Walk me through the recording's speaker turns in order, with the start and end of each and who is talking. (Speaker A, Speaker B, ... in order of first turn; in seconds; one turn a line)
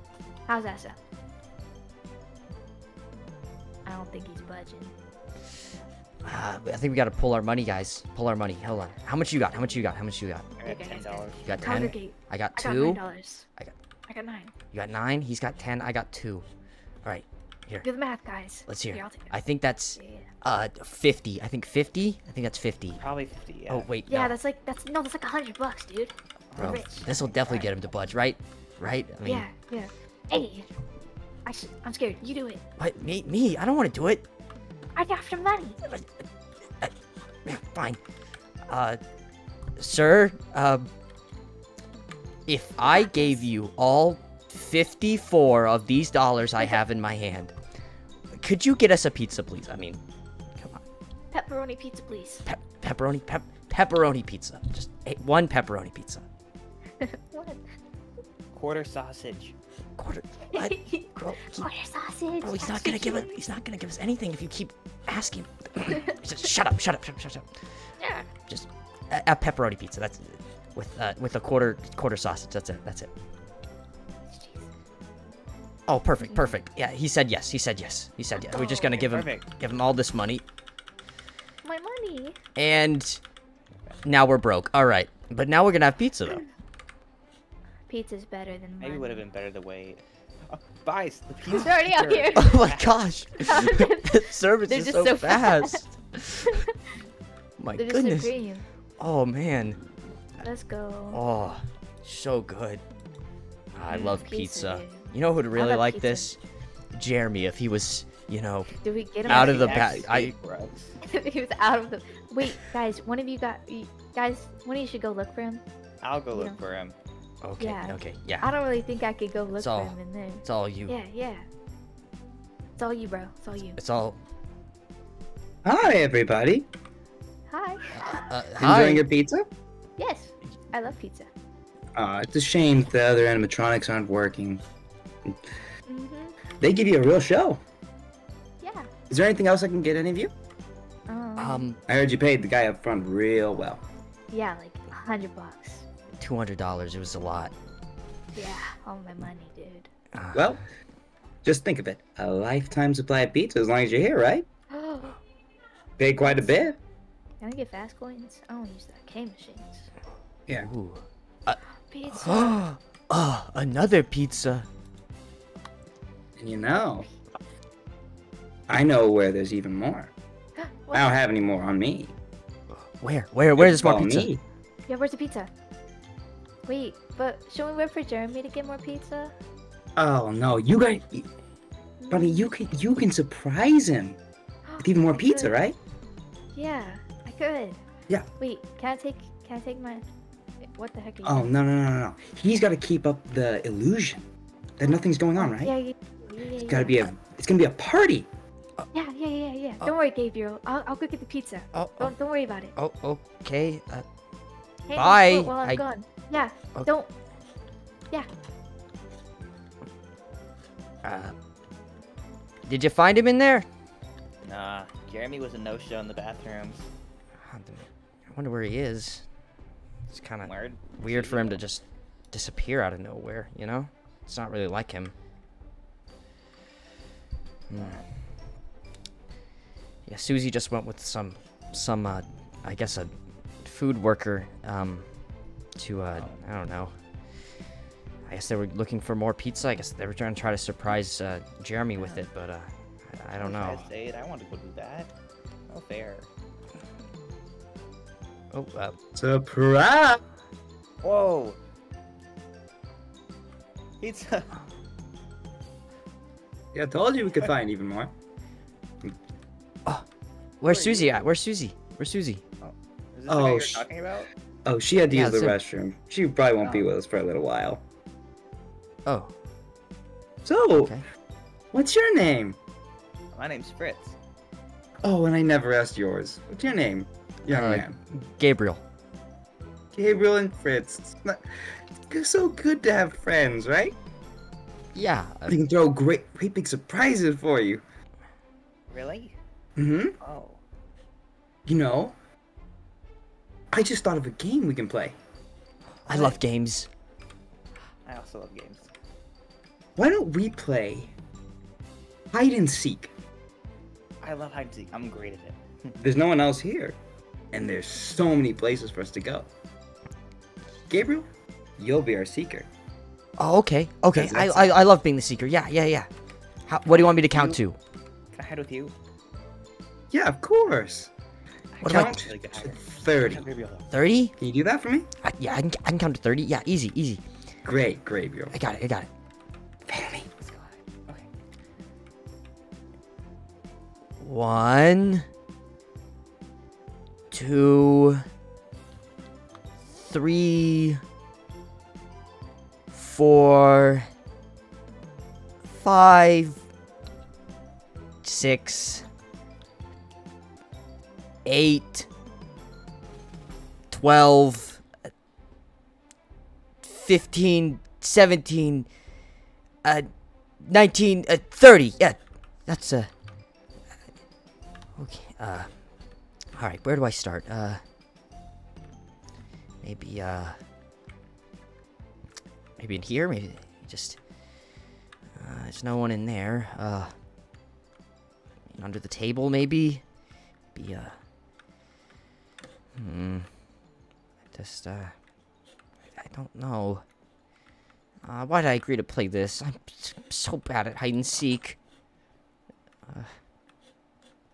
Speaker A: 0.5-1.0
Speaker A: 3.8-4.9
Speaker B: 6.2-10.5
Speaker C: 10.6-11.5
Speaker A: 10.6-13.5
Speaker B: 11.4-13.0
Speaker A: 14.1-14.5
Speaker B: 14.7-16.4
Speaker B: 17.0-17.9
Speaker A: 17.8-19.3
Speaker B: 18.7-23.0
Speaker A: 19.9-20.3
Speaker C: 23.0-23.9
Speaker B: 23.7-24.4
Speaker A: 24.1-27.5
Speaker C: 26.5-27.7
Speaker B: 26.6-29.5
Speaker A: 29.2-30.7
Speaker A: 31.4-32.6
Speaker B: 32.8-34.2
Speaker A: 34.9-35.8
Speaker B: 35.8-36.1
Speaker B: 37.4-38.0
Speaker B: 38.7-39.0
Speaker B: 39.8-40.9
Speaker B: 42.5-47.5
Speaker A: 42.8-43.4
Speaker B: 48.4-50.0
Speaker A: 51.3-52.4
Speaker B: 52.4-56.2
Speaker A: 57.0-57.6
Speaker C: 58.5-59.5
Speaker B: 60.0-61.7
Speaker A: 60.5-63.3
Speaker B: 62.4-67.9
Speaker A: 68.0-68.3
Speaker B: 68.5-73.1
Speaker A: 74.3-74.7
Speaker B: 75.9-80.4
Speaker A: 76.2-76.5
Speaker C: 78.6-79.5
Speaker A: 81.6-82.4
Speaker B: 82.5-83.2
Speaker B: 84.0-86.4
Speaker A: 87.9-89.2
Speaker C: 88.8-93.1
Speaker A: 91.5-92.6
Speaker B: 92.3-96.4
Speaker A: 93.4-95.9
Speaker B: 97.6-98.3
Speaker A: 97.7-98.7
Speaker B: 99.0-99.8
Speaker A: 100.4-101.2
Speaker B: 101.1-102.8
Speaker B: 103.7-106.4
Speaker A: 103.9-106.3
Speaker B: 106.9-110.3
Speaker A: 108.8-109.9
Speaker C: 109.2-110.9
Speaker A: 111.0-115.6
Speaker C: 116.0-117.0
Speaker B: 117.4-118.5
Speaker A: 117.6-121.5
Speaker B: 119.5-121.0
Speaker A: 122.8-123.8
Speaker B: 123.8-124.2
Speaker D: 125.6-126.7
Speaker A: 127.5-128.2
Speaker B: 127.9-129.0
Speaker D: 128.6-129.5
Speaker A: 130.0-131.3
Speaker D: 131.9-134.6
Speaker A: 135.8-136.3
Speaker D: 136.6-137.6
Speaker A: 138.6-138.9
Speaker D: 139.1-140.3
Speaker A: 141.1-141.7
Speaker B: 141.4-141.8
Speaker D: 141.9-143.8
Speaker A: 144.3-145.8
Speaker B: 146.2-147.5
Speaker A: 148.3-149.9
Speaker B: 150.1-150.5
Speaker D: 150.3-150.6
Speaker D: 151.4-154.4
Speaker A: 154.7-155.2
Speaker D: 156.0-156.8
Speaker A: 156.2-156.7
Speaker A: 157.4-159.9
Speaker B: 160.5-161.6
Speaker A: 161.9-162.6
Speaker B: 162.1-164.7
Speaker D: 166.4-167.1
Speaker D: 168.7-170.1
Speaker A: 170.6-171.1
Speaker D: 170.9-172.1
Speaker B: 172.7-174.3
Speaker D: 173.5-174.4
Speaker A: 174.9-175.5
Speaker A: 176.7-179.3
Speaker D: 179.9-181.3
Speaker A: 182.0-182.5
Speaker D: 182.1-184.2
Speaker A: 184.7-185.6
Speaker D: 184.8-185.8
Speaker A: 186.5-187.8
Speaker A: 188.4-190.0
Speaker A: 190.7-191.5
Speaker D: 191.2-194.2
Speaker D: 194.8-195.8
Speaker A: 195.4-197.0
Speaker D: 196.6-198.3
Speaker A: 198.9-202.7
Speaker B: 201.7-202.2
Speaker B: 202.7-204.0
Speaker A: 204.9-207.1
Speaker B: 204.9-205.8
Speaker B: 211.0-211.3
Speaker B: 212.7-213.7
Speaker C: 214.4-216.9
Speaker B: 217.4-219.2
Speaker B: 220.1-225.1
Speaker C: 220.4-221.6
Speaker B: 227.7-228.0
Speaker C: 227.8-228.0
Speaker B: 230.0-235.2
Speaker B: 235.7-236.9
Speaker C: 236.1-236.4
Speaker B: 238.2-243.8
Speaker C: 242.0-242.2
Speaker C: 243.4-245.1
Speaker C: 245.7-246.3
Speaker B: 248.5-249.0
Speaker D: 249.1-250.2
Speaker C: 251.0-251.6
Speaker C: 254.0-254.5
Speaker D: 256.7-258.1
Speaker B: 260.6-262.4
Speaker C: 260.6-261.1
Speaker C: 262.6-264.3
Speaker D: 263.3-263.9
Speaker D: 264.6-267.8
Speaker B: 265.1-265.6
Speaker C: 266.6-266.9
Speaker B: 269.1-269.3
Speaker D: 270.4-271.0
Speaker B: 270.7-271.0
Speaker D: 271.7-272.6
Speaker C: 273.3-274.1
Speaker D: 275.0-278.0
Speaker B: 277.5-278.8
Speaker D: 279.9-283.9
Speaker B: 284.9-285.6
Speaker D: 285.5-287.8
Speaker C: 288.9-289.4
Speaker D: 289.8-290.2
Speaker C: 290.2-290.6
Speaker D: 291.6-292.1
Speaker D: 293.7-295.1
Speaker C: 296.1-296.4
Speaker B: 296.1-296.9
Speaker C: 298.0-298.9
Speaker D: 300.0-301.1
Speaker D: 302.3-303.1
Speaker C: 304.2-306.0
Speaker D: 306.0-307.0
Speaker D: 307.5-309.5
Speaker D: 310.9-312.7
Speaker B: 313.4-316.1
Speaker D: 314.1-314.8
Speaker B: 316.7-317.8
Speaker C: 316.9-317.6
Speaker C: 318.3-318.9
Speaker D: 320.1-321.1
Speaker C: 321.7-323.9
Speaker B: 321.8-322.1
Speaker D: 321.8-323.4
Speaker B: 323.9-324.3
Speaker D: 324.4-325.1
Speaker B: 325.2-327.2
Speaker D: 327.6-328.6
Speaker B: 328.5-329.1
Speaker D: 329.9-330.3
Speaker C: 330.4-331.3
Speaker B: 334.2-335.2
Speaker B: 337.3-338.2
Speaker B: 339.9-341.0
Speaker B: 342.9-344.1
Speaker B: 345.6-346.6
Speaker B: 348.2-349.1
Speaker B: 351.4-352.1
Speaker B: 353.9-354.9
Speaker B: 356.8-358.9
Speaker B: 359.8-363.1
Speaker B: 364.9-365.9
Speaker B: 366.5-367.8
Speaker B: 369.8-370.6
Speaker B: 372.8-374.2
Speaker B: 375.4-377.1
Speaker B: 378.7-380.0
Speaker B: 380.7-381.1
Speaker B: 382.9-383.5
Speaker B: 384.5-385.1
Speaker B: 386.1-387.0
Speaker B: 388.2-391.8